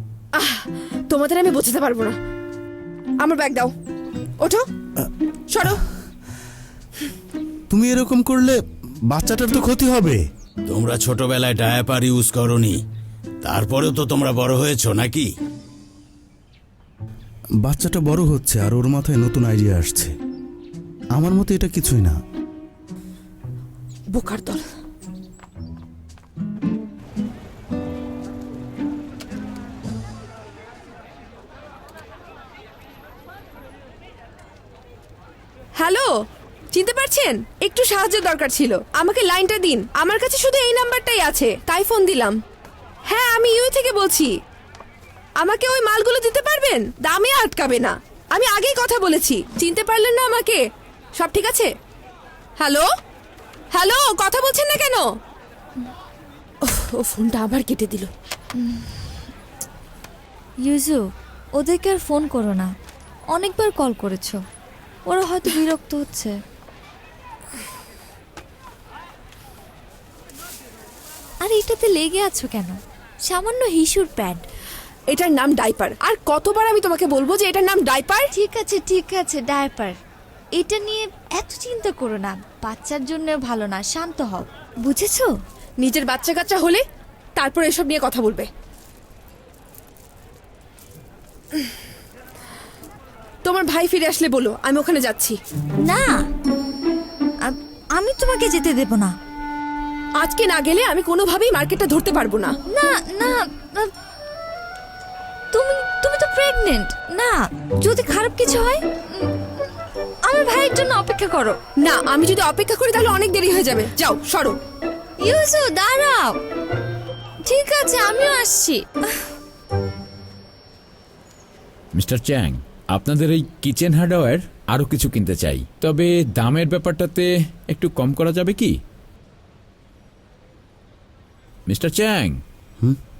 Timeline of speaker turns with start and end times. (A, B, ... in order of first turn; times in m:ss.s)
0:00.4-0:02.2 A
0:03.2-0:03.7 A
0:05.5-0:05.8 A
0:07.7-0:08.6 B
0:09.1-0:10.2 B
0:10.7-0:12.8 C
0:13.4-0:15.3 C
0:17.6-0:20.1 B
0:21.1-0:22.2 B
0:24.1-0:24.6 A
0:35.8-0:36.1 A
0:36.7-0:42.4 A
0:43.1-0:44.3 A
0:45.4-0:50.6 A
0:51.2-0:51.7 A
0:52.6-0:52.8 A
0:53.7-0:55.0 A
0:56.6-0:58.1 A
0:58.6-0:59.1 D
1:00.6-1:02.7 D
1:03.3-1:04.4 D
1:05.0-1:06.3 D
1:11.4-1:14.4 D
1:15.1-1:18.3 A
1:18.3-1:19.9 D
1:20.6-1:25.3 D
1:25.8-1:26.8 A
1:27.4-1:28.5 A
1:33.4-1:35.3 A
1:35.8-1:36.2 D
1:37.4-1:39.1 D
1:40.2-1:42.5 A
1:42.7-1:43.9 D
1:45.5-1:49.4 D
1:50.2-1:51.6 D
1:51.8-1:54.6 A
1:55.2-1:56.4 D
1:57.5-1:58.8 D
2:01.9-2:08.8 E
2:11.7-2:12.4 E